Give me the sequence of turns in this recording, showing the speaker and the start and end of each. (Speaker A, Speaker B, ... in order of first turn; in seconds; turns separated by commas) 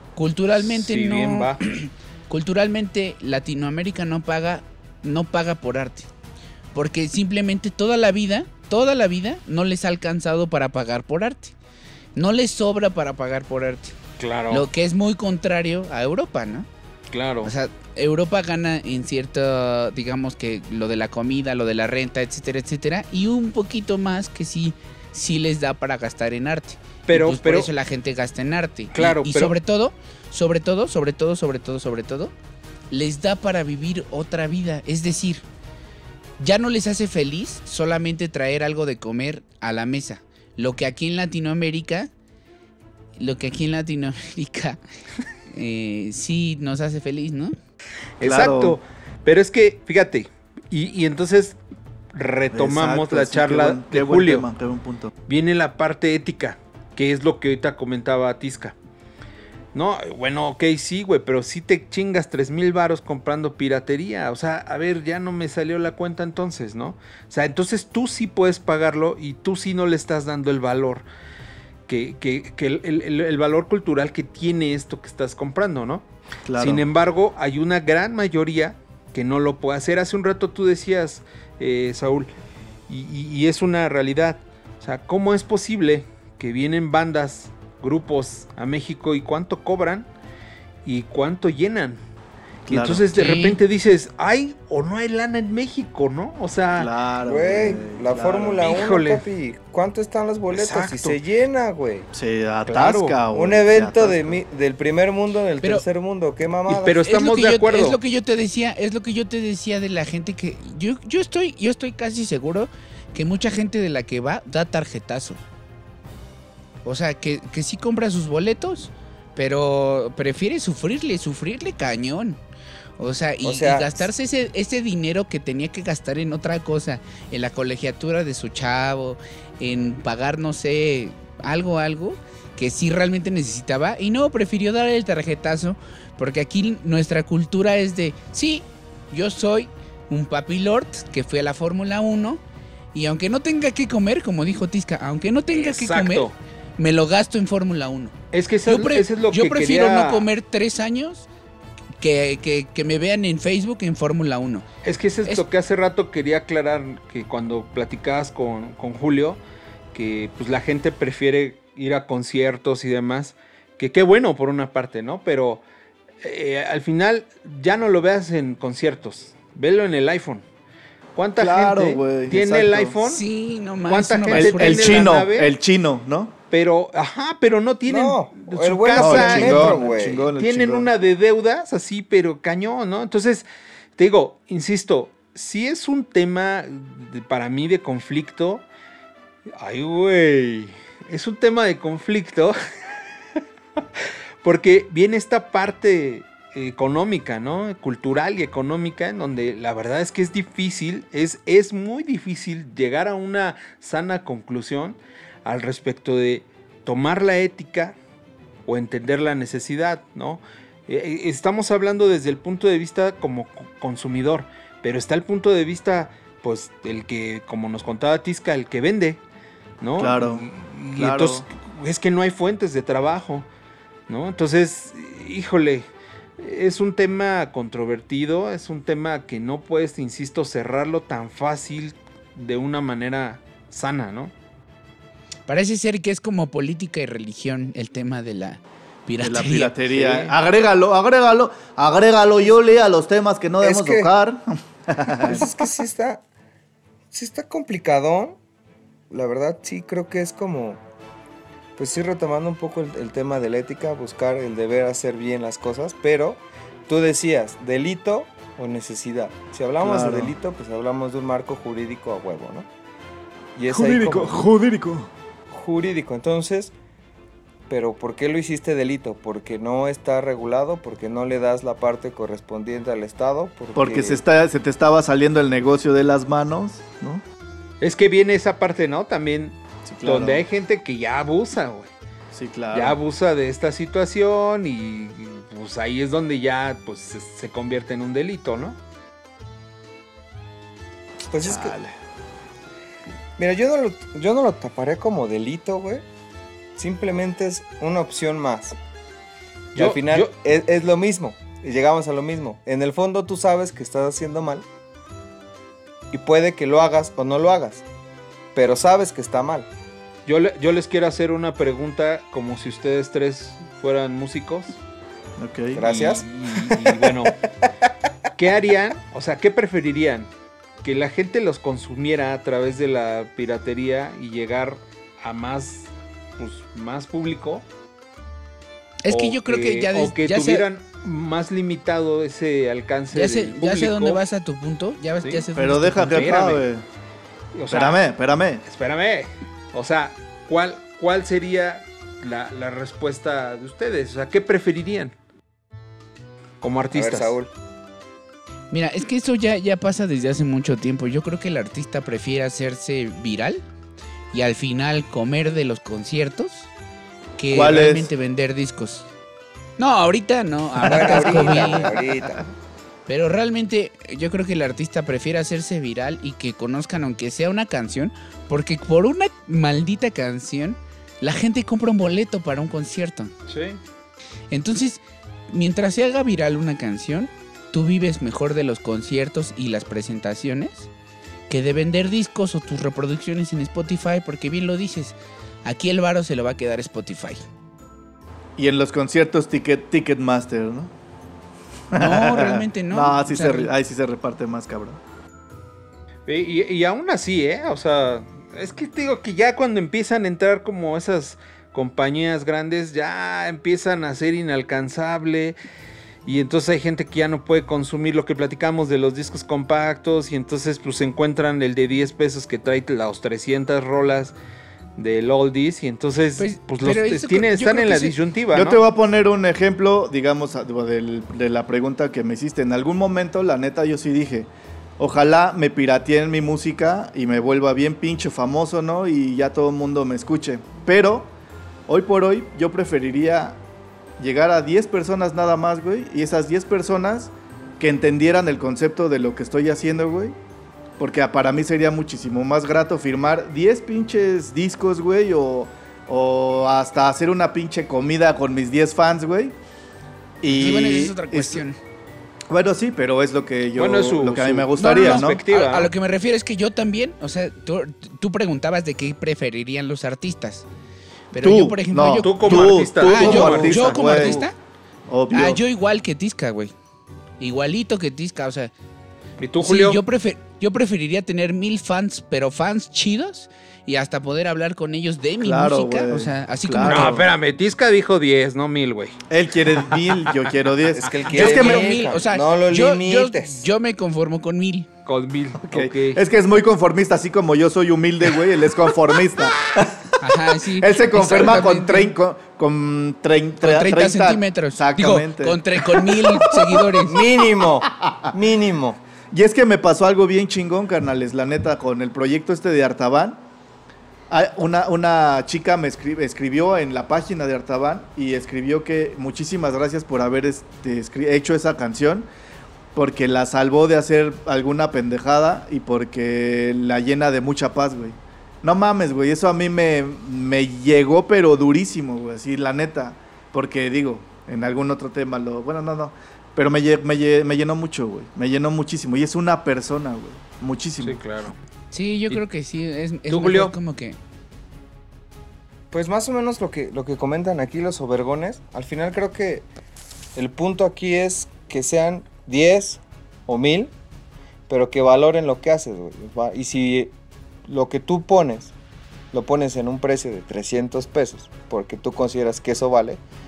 Speaker A: 0.2-6.1, Speaker B: 0.6-1.6, Speaker A: 6.7-11.5, Speaker A: 12.2-14.0, Speaker B: 14.2-14.7, Speaker A: 14.5-16.7, Speaker B: 17.1-17.5, Speaker A: 17.4-32.3, Speaker B: 27.1-27.7, Speaker B: 28.9-29.6, Speaker A: 32.9-35.4, Speaker A: 36.4-42.1, Speaker A: 43.2-44.8, Speaker A: 45.5-47.6, Speaker B: 48.2-51.6, Speaker C: 48.2-48.8, Speaker B: 52.1-54.5, Speaker C: 52.5-55.1, Speaker B: 55.3-58.8, Speaker B: 59.7-71.0, Speaker B: 71.9-76.0, Speaker C: 76.5-76.9, Speaker B: 76.6-82.3, Speaker B: 82.9-90.1, Speaker B: 90.8-92.0, Speaker B: 92.7-96.9, Speaker C: 92.7-93.1, Speaker A: 93.1-93.6, Speaker C: 96.8-98.8, Speaker D: 97.2-102.1, Speaker B: 98.6-99.2, Speaker B: 100.5-101.2, Speaker C: 102.1-104.4, Speaker B: 102.7-103.2, Speaker D: 103.3-107.0, Speaker B: 106.7-108.0, Speaker A: 107.0-115.4, Speaker A: 116.8-122.4, Speaker A: 123.0-142.4, Speaker D: 123.4-124.1, Speaker A: 142.9-148.2, Speaker B: 145.5-146.3, Speaker B: 148.3-150.3, Speaker A: 148.7-151.3, Speaker A: 152.0-154.7, Speaker B: 154.8-159.4, Speaker B: 159.9-165.6, Speaker B: 166.2-170.4, Speaker B: 171.2-173.2, Speaker C: 171.4-173.0, Speaker A: 173.1-175.1, Speaker B: 173.9-175.5, Speaker C: 174.3-176.3, Speaker B: 176.5-183.4, Speaker D: 177.9-180.3, Speaker C: 178.9-180.9, Speaker B: 184.0-188.6, Speaker B: 189.6-192.6, Speaker B: 194.0-208.0, Speaker B: 208.7-219.2, Speaker B: 219.8-223.5, Speaker C: 220.0-220.4, Speaker C: 221.0-221.4, Speaker B: 224.1-225.9, Speaker B: 226.4-234.3, Speaker A: 235.5-239.7, Speaker C: 239.2-245.4, Speaker B: 239.9-240.3, Speaker D: 243.6-244.1, Speaker D: 245.1-246.2, Speaker D: 247.1-248.4, Speaker D: 249.1-250.8, Speaker D: 251.8-262.7, Speaker C: 259.8-260.3, Speaker D: 263.6-264.5, Speaker C: 263.7-265.1, Speaker D: 265.5-266.7, Speaker D: 267.7-274.2, Speaker C: 273.8-277.2, Speaker B: 277.8-281.9, Speaker C: 279.9-280.4, Speaker C: 282.3-283.0, Speaker B: 282.7-288.8, Speaker D: 291.3-291.8, Speaker C: 291.4-291.9, Speaker D: 293.4-296.0, Speaker D: 296.8-298.8, Speaker B: 299.8-300.3, Speaker D: 299.8-304.7, Speaker D: 306.1-307.8, Speaker D: 308.6-309.7, Speaker B: 310.3-314.8, Speaker C: 315.4-315.8, Speaker D: 315.7-317.9, Speaker B: 315.8-317.3, Speaker B: 318.4-320.3, Speaker B: 320.8-327.6, Speaker A: 329.0-330.7, Speaker B: 329.1-334.2, Speaker A: 333.1-336.3, Speaker C: 335.6-336.8, Speaker B: 336.1-336.7, Speaker B: 337.6-338.0, Speaker C: 337.7-338.6, Speaker B: 338.7-345.2, Speaker B: 346.6-347.4, Speaker D: 346.9-347.5, Speaker A: 348.7-353.6, Speaker A: 354.3-356.7, Speaker A: 357.4-359.1, Speaker C: 357.5-358.1, Speaker A: 359.8-361.9, Speaker D: 360.8-362.4, Speaker A: 363.1-373.3, Speaker B: 373.5-373.8, Speaker A: 374.5-380.9, Speaker A: 381.5-385.1, Speaker A: 385.7-387.4, Speaker C: 388.6-390.9, Speaker C: 391.9-395.0, Speaker A: 391.9-393.7, Speaker B: 396.3-405.6, Speaker B: 406.3-414.3, Speaker B: 415.0-418.8, Speaker A: 416.4-418.1, Speaker C: 418.5-431.3, Speaker C: 431.9-433.6, Speaker C: 434.2-440.4, Speaker C: 441.0-449.5, Speaker C: 450.4-451.6, Speaker A: 450.5-451.8, Speaker C: 452.5-455.4, Speaker B: 453.8-455.9, Speaker A: 454.8-460.7, Speaker A: 461.3-464.6, Speaker C: 461.4-464.4, Speaker B: 462.2-464.4, Speaker C: 465.1-465.6, Speaker A: 465.3-466.7, Speaker A: 467.4-468.7, Speaker B: 469.4-470.0, Speaker A: 469.6-477.2, Speaker C: 475.4-477.3, Speaker B: 476.9-479.2, Speaker C: 479.3-482.0, Speaker D: 480.9-483.7, Speaker A: 481.3-484.9, Speaker B: 485.1-486.2, Speaker C: 485.7-496.9, Speaker A: 490.2-492.1, Speaker A: 493.6-497.2, Speaker D: 497.0-499.0, Speaker C: 497.6-498.3, Speaker C: 499.3-503.4, Speaker C: 504.3-512.3, Speaker C: 513.0-531.2, Speaker B: 531.0-531.6, Speaker A: 531.9-534.2, Speaker B: 533.3-533.7, Speaker D: 535.9-539.7, Speaker D: 540.4-543.9, Speaker D: 544.7-547.1, Speaker D: 547.7-548.7, Speaker D: 549.3-553.2